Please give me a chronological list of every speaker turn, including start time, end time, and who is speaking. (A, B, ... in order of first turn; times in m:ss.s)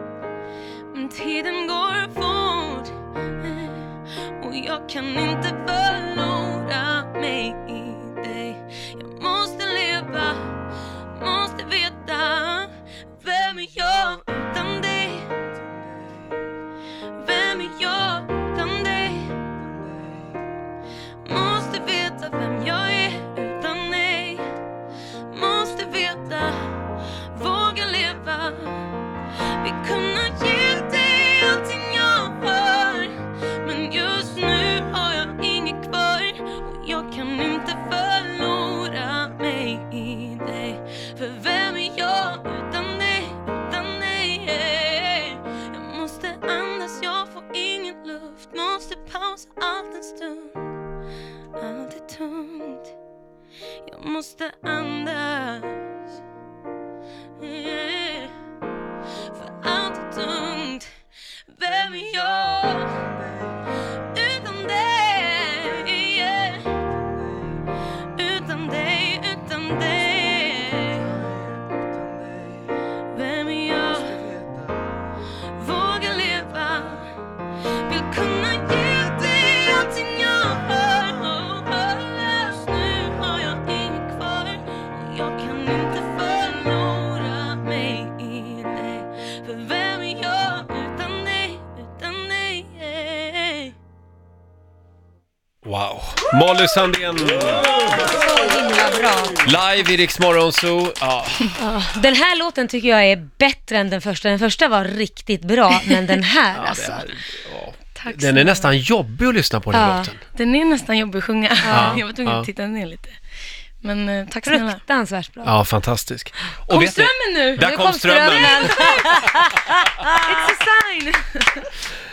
0:00.9-0:15.3 A
0:17.2-0:19.4 A
0:21.2-0:24.5 A
0:25.3-0:29.0 A
0:29.5-0:50.7 A
0:51.6-0:52.9 A
0:53.8-0:55.9 A
0:57.4-0:58.4 A
0:59.2-1:00.9 A
1:01.5-1:03.1 A
1:04.1-1:06.9 A
1:08.1-1:11.2 A
1:13.1-1:14.4 A
1:15.5-1:17.2 A
1:17.7-1:33.7 A
1:35.6-1:37.7 B
1:38.0-1:39.4 C
1:39.4-1:41.6 B
1:41.6-1:46.9 C
1:46.5-1:50.2 B
1:47.9-1:48.7 A
1:49.7-1:50.1 C
1:50.3-1:53.2 A
1:51.6-1:52.0 C
1:51.7-1:52.4 B
1:53.8-1:54.8 A
1:54.4-1:55.5 C
1:55.4-1:59.0 B
1:56.7-1:59.4 A
1:57.6-2:00.4 C
2:00.1-2:01.6 A